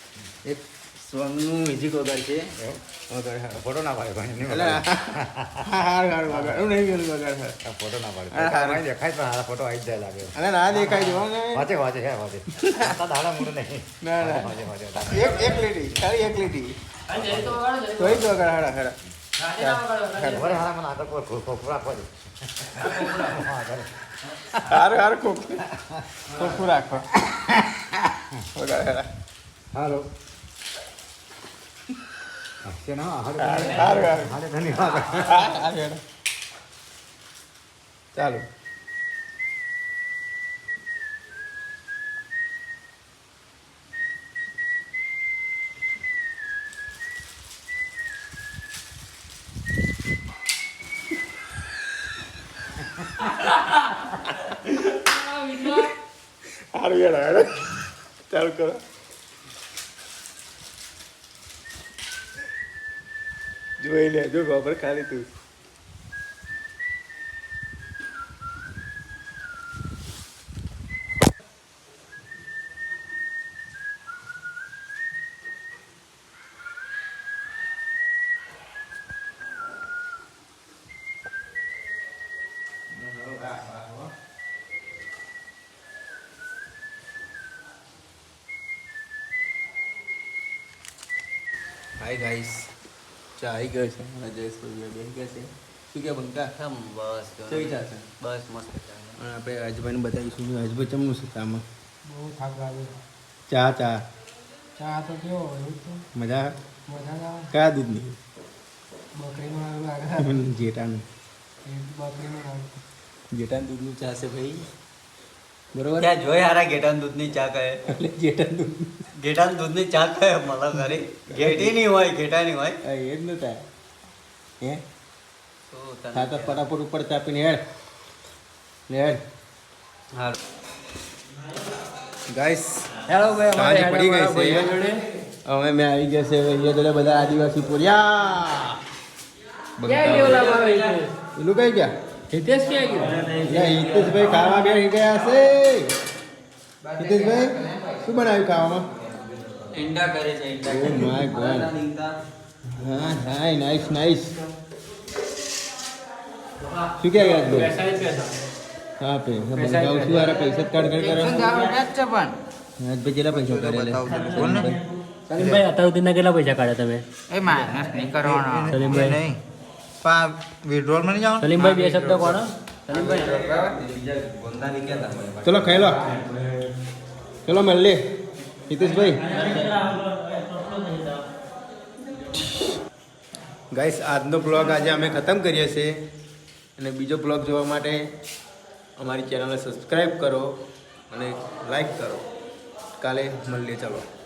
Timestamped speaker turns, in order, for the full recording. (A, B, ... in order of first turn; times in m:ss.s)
0:00.4-0:02.4 A
0:01.2-0:02.3 B
0:03.1-0:03.7 A
0:03.6-0:05.4 C
0:04.5-0:07.6 A
0:07.6-0:10.4 C
0:08.3-0:08.8 A
0:10.3-0:11.7 A
0:11.5-0:15.3 C
0:12.6-0:13.0 A
0:14.0-0:16.7 A
0:15.2-0:15.7 D
0:17.1-0:18.3 D
0:17.2-0:17.6 C
0:18.0-0:19.0 A
0:19.4-0:20.6 D
0:20.2-0:23.9 C
0:24.6-0:25.7 A
0:26.3-0:27.2 A
0:28.5-0:29.1 A
0:29.8-0:30.0 C
0:32.6-0:35.6 C
0:33.4-0:34.4 A
0:35.1-0:36.0 A
0:38.1-0:38.5 A
0:55.0-0:55.9 D
0:56.7-0:57.7 A
0:58.3-0:58.8 A
1:03.8-1:05.3 A
1:22.9-1:24.1 A
1:32.0-1:32.7 A
1:33.4-1:36.5 A
1:36.6-1:39.2 B
1:37.5-1:38.0 A
1:39.2-1:41.6 A
1:42.1-1:43.0 D
1:43.5-1:44.0 A
1:44.8-1:46.0 D
1:46.1-1:46.5 A
1:46.9-1:47.5 D
1:47.5-1:48.2 A
1:49.2-1:50.3 D
1:50.2-1:51.0 A
1:51.6-1:52.8 D
1:53.3-1:54.6 A
1:55.7-1:56.1 A
1:56.0-1:57.8 B
1:57.9-1:58.9 A
1:59.2-2:02.8 B
2:01.3-2:01.7 A
2:02.8-2:03.6 A
2:05.7-2:06.6 B
2:06.1-2:07.6 A
2:08.9-2:09.2 A
2:10.1-2:10.4 B
2:12.3-2:12.9 A
2:13.1-2:15.0 D
2:13.5-2:14.7 A
2:15.4-2:18.8 A
2:19.8-2:20.5 A
2:19.8-2:21.1 D
2:20.0-2:20.9 B
2:21.4-2:21.9 A
2:22.3-2:23.2 D
2:22.8-2:24.5 B
2:23.4-2:25.9 A
2:26.8-2:28.0 B
2:27.0-2:28.9 A
2:29.7-2:32.2 B
2:30.7-2:31.7 A
2:32.8-2:34.4 A
2:37.0-2:37.7 A
2:37.1-2:38.4 D
2:39.0-2:41.6 A
2:39.5-2:40.3 D
2:41.0-2:42.4 E
2:42.8-2:44.8 A
2:43.5-2:44.7 E
2:44.4-2:44.6 B
2:45.3-2:47.0 D
2:47.3-2:49.4 E
2:47.5-2:49.1 A
2:48.7-2:49.2 D
2:50.0-2:51.6 E
2:51.4-2:53.3 D
2:51.6-2:52.2 B
2:52.9-2:56.2 B
2:55.4-2:56.2 A
2:57.5-2:58.0 A
2:58.7-2:59.8 A
2:59.3-2:59.7 B
3:03.7-3:06.0 A
3:06.8-3:08.0 A
3:09.0-3:10.5 A
3:11.1-3:12.2 A
3:13.0-3:14.1 A